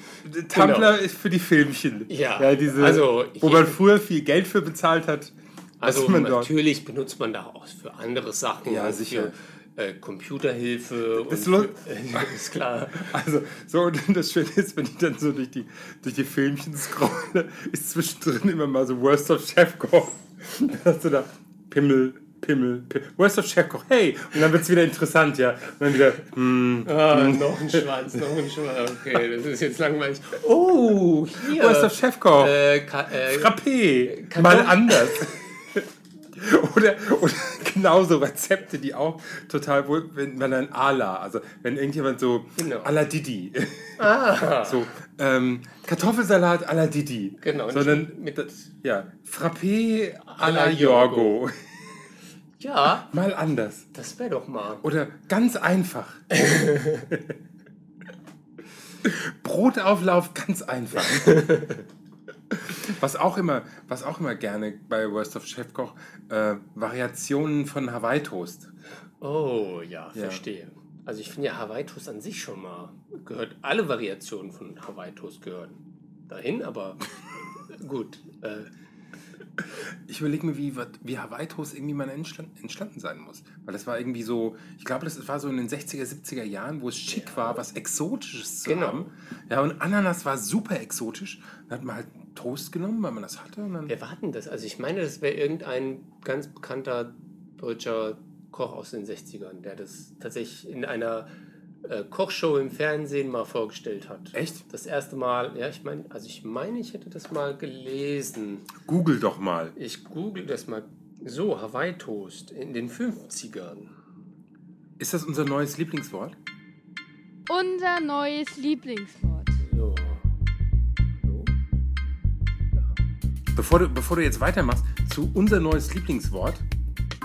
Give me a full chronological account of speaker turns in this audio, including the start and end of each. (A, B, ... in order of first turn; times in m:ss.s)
0:00.2-0:06.5 A
0:00.5-0:01.0 B
0:02.1-0:03.8 B
0:05.8-0:13.1 B
0:08.6-0:09.3 A
0:11.2-0:12.3 A
0:12.9-0:27.8 A
0:26.8-0:35.3 B
0:31.4-0:32.6 A
0:33.1-0:52.0 A
0:42.6-0:42.9 B
0:44.0-0:44.9 B
0:47.4-0:48.6 B
0:50.3-0:51.4 B
0:52.6-0:53.1 B
0:53.0-0:53.9 A
0:53.9-0:54.8 B
0:54.8-0:56.4 A
0:56.3-0:57.1 B
0:59.0-1:01.8 A
1:01.2-1:01.8 B
1:02.6-1:08.7 A
1:09.2-1:17.1 B
1:10.1-1:10.4 A
1:17.7-1:18.7 B
1:20.1-1:33.9 A
1:27.1-1:27.6 B
1:28.6-1:29.1 B
1:33.9-1:41.3 B
1:41.8-1:48.7 B
1:44.3-1:44.6 A
1:48.8-1:49.7 A
1:49.8-1:53.9 B
1:55.0-1:56.4 A
1:57.5-1:59.6 C
1:59.6-2:00.2 B
2:01.2-2:01.5 B
2:03.5-2:06.6 A